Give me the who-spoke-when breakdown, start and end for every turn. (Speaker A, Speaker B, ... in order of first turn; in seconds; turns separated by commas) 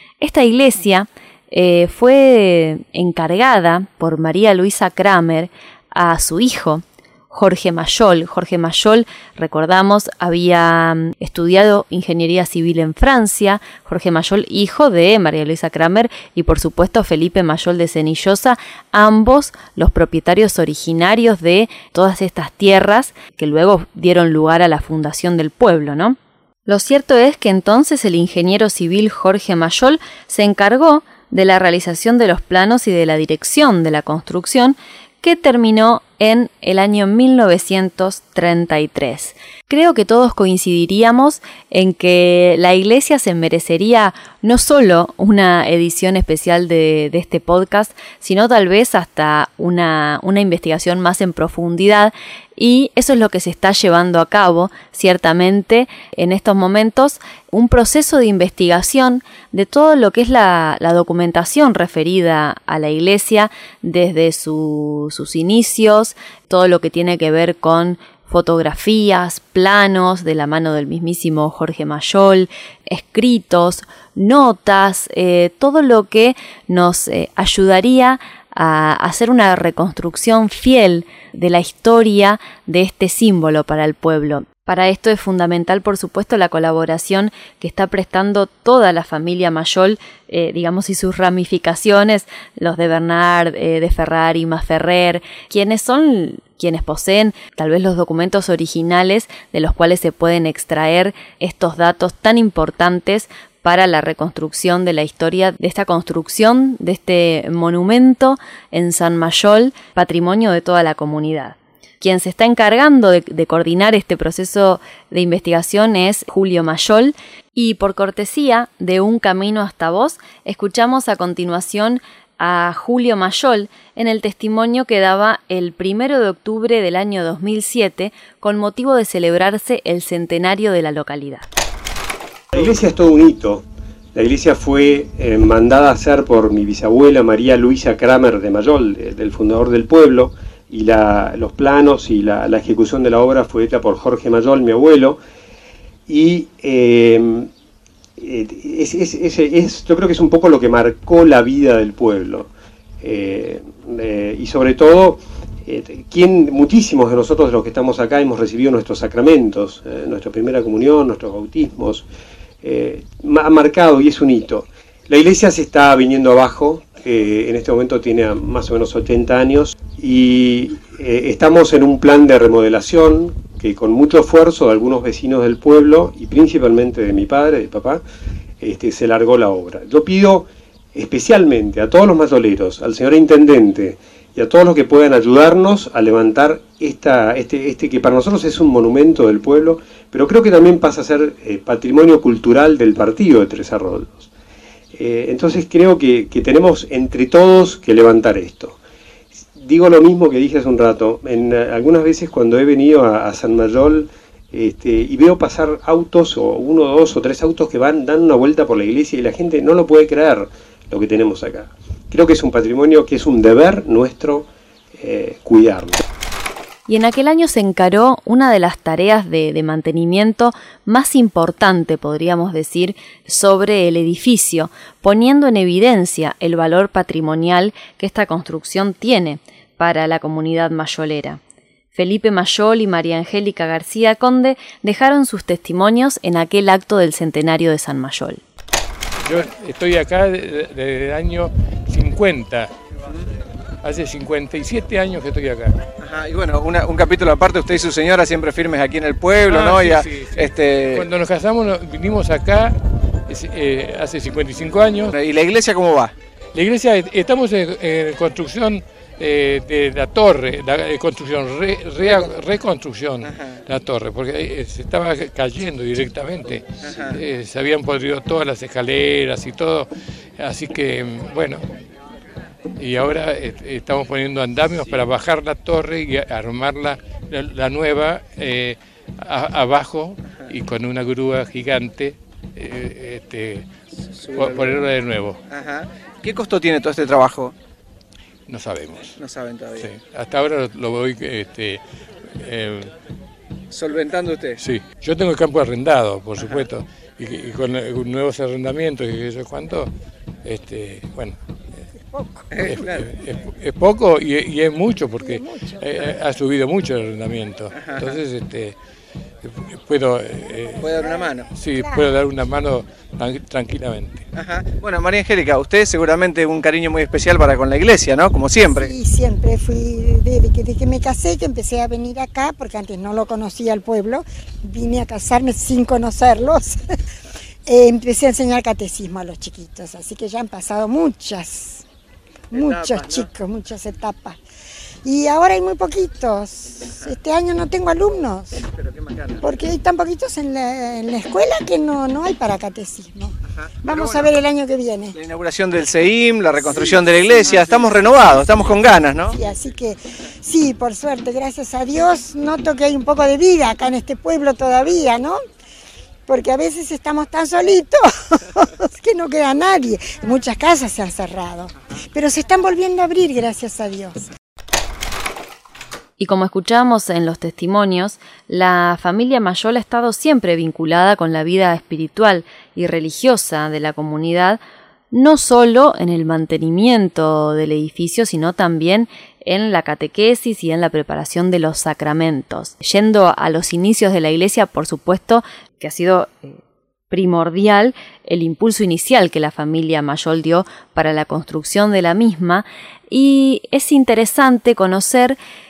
Speaker A: 0.2-131.5, Speaker B: 132.5-133.6, Speaker B: 134.1-145.2, Speaker B: 146.1-147.5, Speaker B: 148.2-152.5, Speaker B: 153.0-162.1, Speaker B: 162.6-178.0, Speaker B: 178.6-194.3, Speaker B: 194.9-198.8, Speaker B: 199.6-216.0, Speaker A: 216.9-231.4, Speaker A: 231.9-238.4, Speaker C: 239.2-242.7, Speaker C: 243.8-245.7, Speaker D: 246.0-251.1, Speaker C: 249.5-252.8, Speaker C: 253.3-255.1, Speaker D: 255.1-256.1, Speaker C: 256.5-271.6, Speaker D: 262.0-262.3, Speaker D: 263.2-263.6, Speaker D: 266.8-267.2, Speaker C: 272.8-283.7, Speaker D: 284.2-284.9, Speaker C: 284.3-285.4, Speaker D: 285.5-287.5, Speaker C: 288.5-289.1, Speaker D: 289.2-289.9, Speaker C: 289.8-291.8, Speaker C: 292.4-292.9, Speaker D: 293.7-294.6, Speaker C: 294.6-299.9, Speaker D: 296.4-296.7, Speaker C: 300.4-301.4, Speaker E: 302.1-302.5, Speaker D: 302.5-303.0, Speaker C: 302.6-308.8, Speaker E: 305.2-306.0, Speaker D: 307.8-308.1, Speaker C: 309.4-310.9, Speaker D: 310.8-311.5, Speaker E: 310.8-312.1, Speaker C: 311.5-314.2, Speaker D: 314.4-318.9, Speaker E: 318.7-326.8, Speaker E: 327.7-331.9, Speaker D: 332.5-333.3, Speaker E: 332.5-334.4, Speaker E: 335.0-338.6, Speaker D: 338.8-339.4, Speaker E: 339.4-343.3, Speaker D: 343.8-344.3, Speaker E: 343.8-345.1, Speaker D: 345.1-349.4, Speaker E: 346.6-355.4, Speaker E: 356.3-364.3, Speaker A: 366.2-374.6, Speaker A: 375.1-386.6, Speaker A: 387.1-395.4